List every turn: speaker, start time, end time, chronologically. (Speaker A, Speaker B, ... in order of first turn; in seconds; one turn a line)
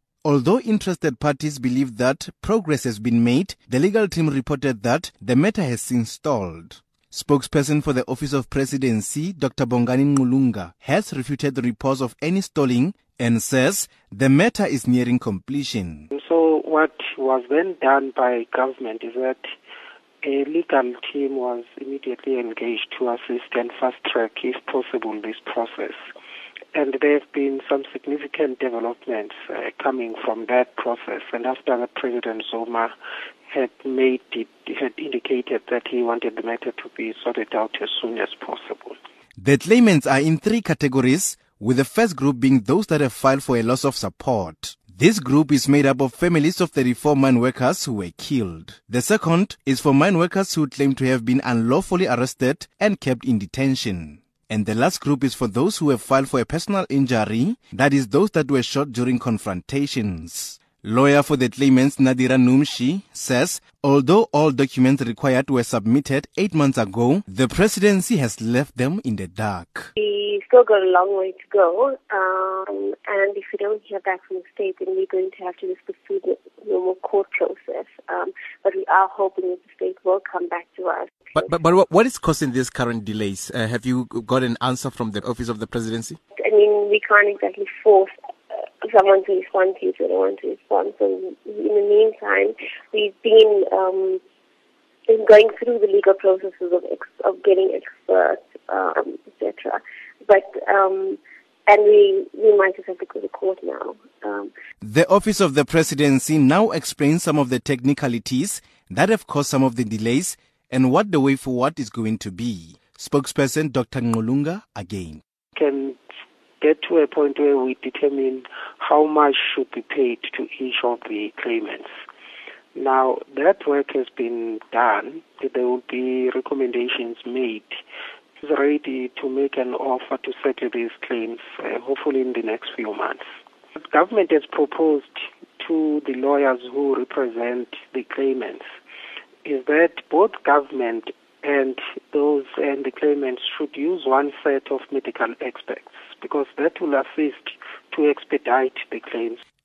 Speaker A: 0.2-16.1
Speaker B: 16.1-19.5
Speaker B: 20.2-26.0
Speaker B: 26.7-32.9
Speaker B: 33.5-39.0
Speaker A: 39.4-69.9
Speaker C: 70.0-81.6
Speaker A: 81.4-86.2
Speaker C: 86.3-88.1
Speaker C: 88.8-94.2
Speaker C: 95.1-104.5
Speaker A: 104.8-115.2
Speaker B: 115.5-116.0
Speaker B: 116.6-121.9
Speaker B: 122.8-127.8
Speaker B: 128.4-133.2
Speaker B: 133.8-138.6
Speaker B: 139.4-149.4